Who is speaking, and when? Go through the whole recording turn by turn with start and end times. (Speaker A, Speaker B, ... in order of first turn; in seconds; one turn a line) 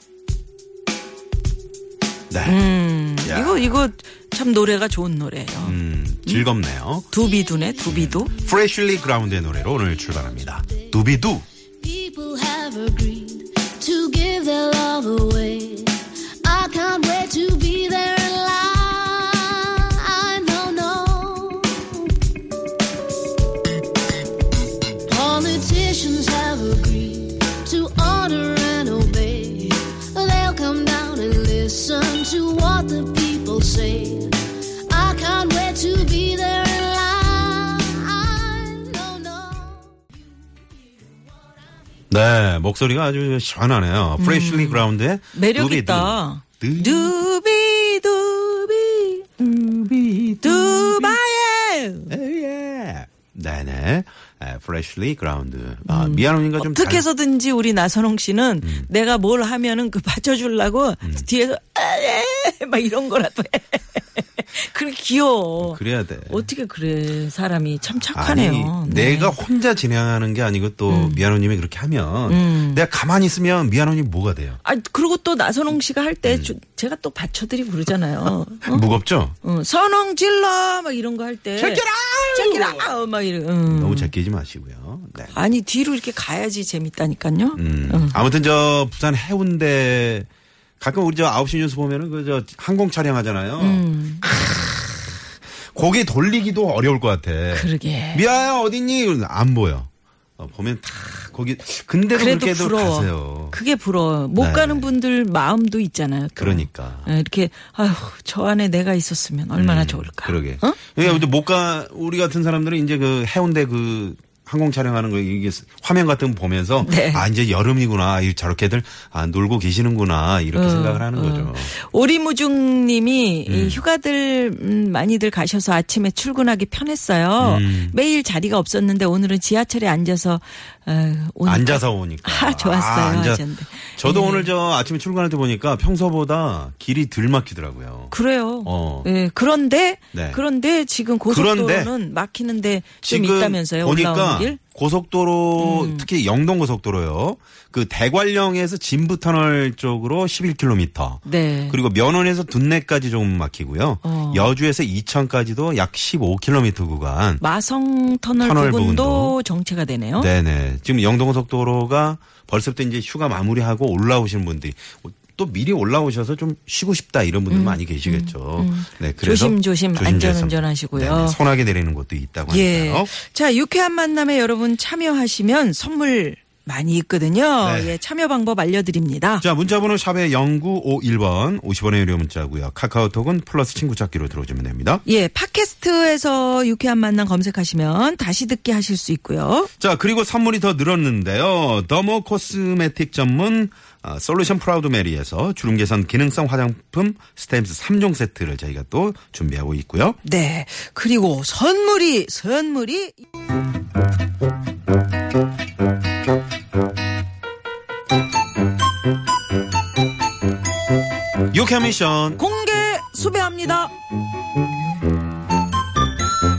Speaker A: 2.3-3.8
Speaker B: 2.4-6.5
Speaker A: 5.6-7.1
Speaker B: 7.1-8.4
Speaker A: 7.8-11.4
Speaker C: 11.8-22.0
Speaker C: 25.1-39.8
Speaker A: 42.1-47.1
Speaker B: 44.2-49.4
Speaker A: 49.4-51.2
Speaker B: 50.4-52.1
Speaker A: 52.1-57.0
Speaker B: 55.9-69.4
Speaker A: 58.6-58.9
Speaker A: 65.6-66.4
Speaker A: 68.1-74.6
Speaker B: 70.9-71.3
Speaker B: 72.3-72.8
Speaker B: 74.6-78.8
Speaker A: 76.2-76.5
Speaker A: 78.7-79.3
Speaker B: 79.4-84.1
Speaker A: 81.5-82.9
Speaker A: 83.7-85.3
Speaker B: 85.3-88.2
Speaker A: 87.5-90.3
Speaker A: 90.8-95.1
Speaker B: 93.6-94.3
Speaker A: 95.7-103.6
Speaker B: 97.5-98.2
Speaker B: 102.1-111.3
Speaker A: 104.3-104.9
Speaker A: 106.4-107.1
Speaker A: 109.5-121.7
Speaker B: 116.8-117.3
Speaker B: 120.5-134.5
Speaker A: 123.5-123.8
Speaker A: 127.4-128.0
Speaker A: 131.4-139.1
Speaker B: 138.1-144.6
Speaker A: 140.1-140.4
Speaker A: 141.3-141.9
Speaker A: 143.0-157.4
Speaker B: 145.6-146.1
Speaker B: 151.2-151.8
Speaker B: 154.0-154.5
Speaker B: 157.4-160.3
Speaker A: 158.4-159.4
Speaker A: 160.2-173.1
Speaker B: 167.5-171.4
Speaker B: 172.5-179.4
Speaker A: 177.6-178.0
Speaker A: 179.4-185.0
Speaker B: 185.0-189.7
Speaker A: 189.8-200.2
Speaker B: 200.2-203.2
Speaker A: 211.5-212.4
Speaker B: 212.3-213.9